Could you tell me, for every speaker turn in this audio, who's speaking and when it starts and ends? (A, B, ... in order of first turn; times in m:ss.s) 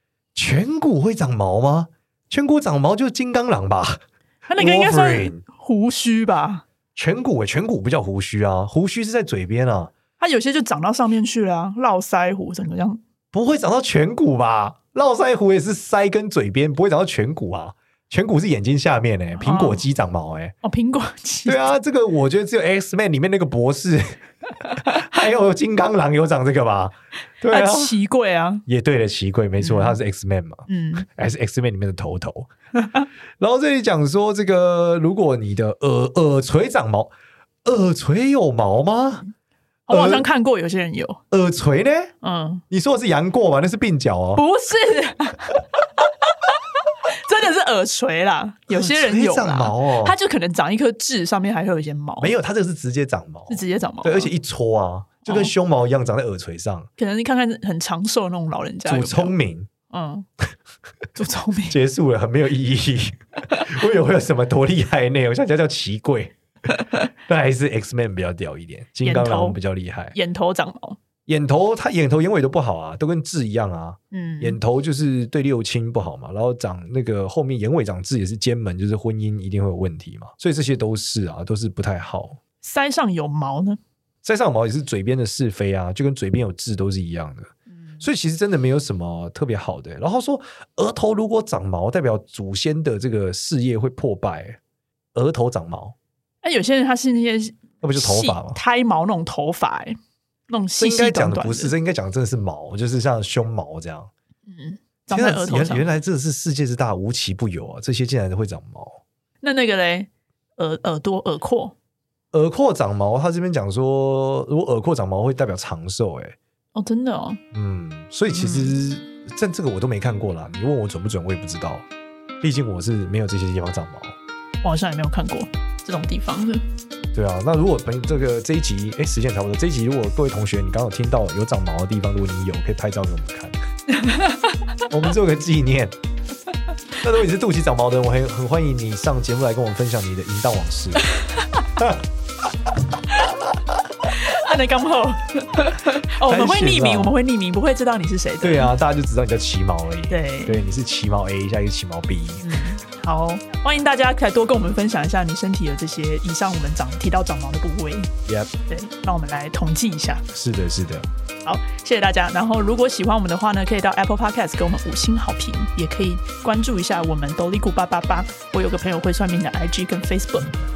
0:00.3-0:04.0 A
0:04.5-0:06.6 B
0:04.6-0:05.4 A
0:06.9-0:09.9 A
0:10.2-0:13.0 B
0:13.3-0:20.5 A
0:19.4-0:19.8 B
0:20.6-0:21.7 B
0:21.4-0:28.0 A
0:24.7-0:25.0 B
0:27.5-0:28.6 B
0:28.7-0:32.5 A
0:29.6-0:30.0 B
0:30.7-0:31.1 B
0:33.4-0:37.1 A
0:37.6-0:39.2 A
0:39.9-0:41.2 B
0:39.9-0:40.3 A
0:41.3-0:42.1 A
0:42.2-0:42.6 B
0:42.7-0:44.4 A
0:44.3-0:45.6 B
0:47.0-0:52.3 B
0:48.7-0:50.2 A
0:52.2-0:56.9 A
0:53.5-0:54.3 B
0:55.3-0:55.5 B
0:57.0-0:59.3 B
0:58.9-0:59.7 A
0:59.9-1:00.2 B
1:01.1-1:01.8 B
1:01.7-1:06.4 A
1:06.7-1:07.1 B
1:07.3-1:10.2 A
1:09.0-1:09.6 B
1:10.1-1:11.0 B
1:11.2-1:22.4 A
1:14.1-1:14.6 B
1:22.6-1:23.8 B
1:24.2-1:34.6 A
1:35.1-1:35.9 A
1:36.4-1:40.0 B
1:37.8-1:38.6 A
1:40.5-1:41.7 B
1:40.8-1:44.1 A
1:44.5-1:45.9 B
1:45.1-1:49.0 A
1:49.4-1:51.7 B
1:52.3-1:56.4 A
1:56.7-1:57.4 B
1:57.5-2:01.8 A
1:58.3-1:58.7 B
2:02.4-2:04.2 A
2:04.6-2:06.6 B
2:07.1-2:13.6 A
2:13.9-2:14.6 B
2:14.9-2:15.9 A
2:17.0-2:21.1 A
2:21.4-2:21.6 B
2:23.2-2:23.6 A
2:24.1-2:28.7 B
2:26.2-2:27.1 A
2:28.4-2:32.6 A
2:30.1-2:30.5 B
2:32.4-2:38.1 B
2:38.2-2:38.5 A
2:38.7-2:40.2 B
2:40.3-2:41.1 A
2:41.4-2:50.5 B